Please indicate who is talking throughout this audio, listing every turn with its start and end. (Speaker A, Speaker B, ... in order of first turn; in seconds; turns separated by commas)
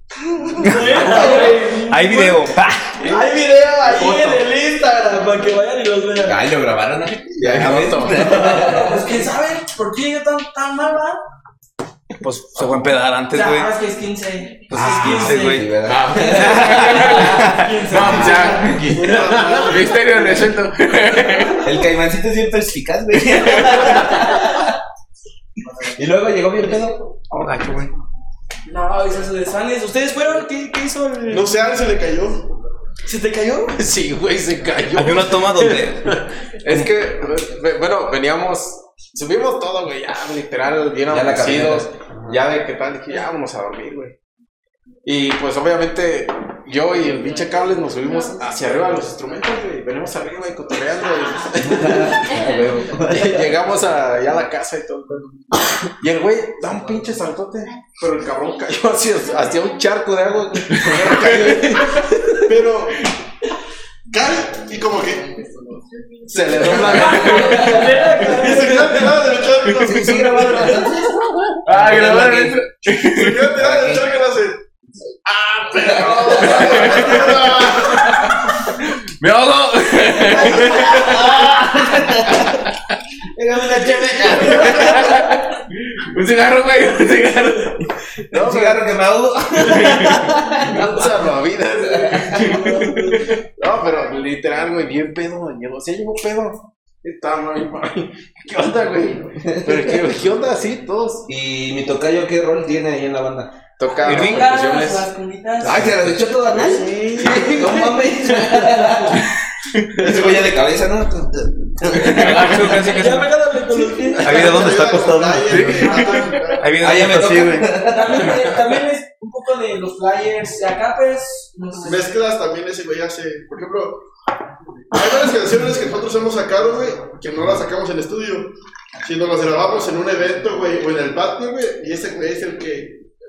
Speaker A: 0.4-0.8, Speaker B: 0.6-2.5, Speaker C: 0.6-3.0, Speaker B: 3.0-6.4, Speaker A: 6.2-9.2, Speaker D: 7.4-8.6, Speaker B: 8.1-11.2, Speaker C: 12.2-13.7, Speaker B: 13.3-15.6, Speaker C: 14.7-15.7, Speaker A: 14.7-18.6, Speaker D: 15.8-21.6, Speaker B: 17.4-18.8, Speaker E: 18.8-20.4, Speaker B: 21.2-21.5, Speaker A: 21.6-24.8, Speaker A: 25.8-27.1, Speaker C: 27.3-27.9, Speaker B: 28.7-31.5, Speaker E: 31.3-32.5, Speaker B: 33.0-33.8, Speaker F: 33.7-35.8, Speaker C: 34.9-36.2, Speaker F: 36.6-44.1, Speaker A: 41.1-42.4, Speaker F: 45.0-52.3, Speaker A: 51.6-53.5, Speaker F: 53.0-55.5, Speaker F: 56.0-61.8, Speaker D: 60.7-62.0, Speaker A: 60.8-62.0, Speaker E: 62.4-63.1, Speaker E: 64.1-65.2, Speaker F: 65.1-67.5, Speaker E: 66.3-70.9, Speaker D: 66.4-68.1, Speaker B: 66.7-69.0, Speaker A: 67.4-67.9, Speaker A: 69.8-72.6, Speaker D: 71.6-73.5, Speaker E: 72.9-74.6, Speaker A: 73.5-74.1, Speaker E: 75.3-78.2, Speaker F: 75.3-76.8, Speaker A: 75.8-77.5, Speaker D: 76.5-81.5, Speaker A: 80.2-82.6, Speaker A: 83.3-85.2, Speaker D: 84.4-87.9, Speaker F: 88.3-88.8, Speaker A: 88.3-90.9, Speaker D: 89.6-90.2, Speaker F: 90.6-92.8, Speaker D: 92.3-93.0, Speaker B: 92.4-93.3, Speaker F: 93.4-101.2, Speaker A: 99.3-99.9, Speaker A: 101.3-103.6, Speaker F: 103.8-104.9, Speaker C: 104.0-104.5, Speaker B: 104.0-105.9, Speaker D: 104.0-105.1, Speaker A: 105.6-109.2, Speaker B: 106.6-107.9, Speaker A: 110.0-112.8, Speaker C: 112.0-113.3, Speaker D: 112.1-113.2, Speaker B: 112.8-114.8, Speaker E: 114.0-117.1, Speaker C: 114.2-115.9, Speaker D: 115.5-116.3, Speaker B: 115.8-116.5, Speaker C: 116.6-117.7, Speaker A: 116.8-118.4, Speaker B: 117.8-122.2, Speaker E: 121.8-124.0, Speaker E: 124.9-133.0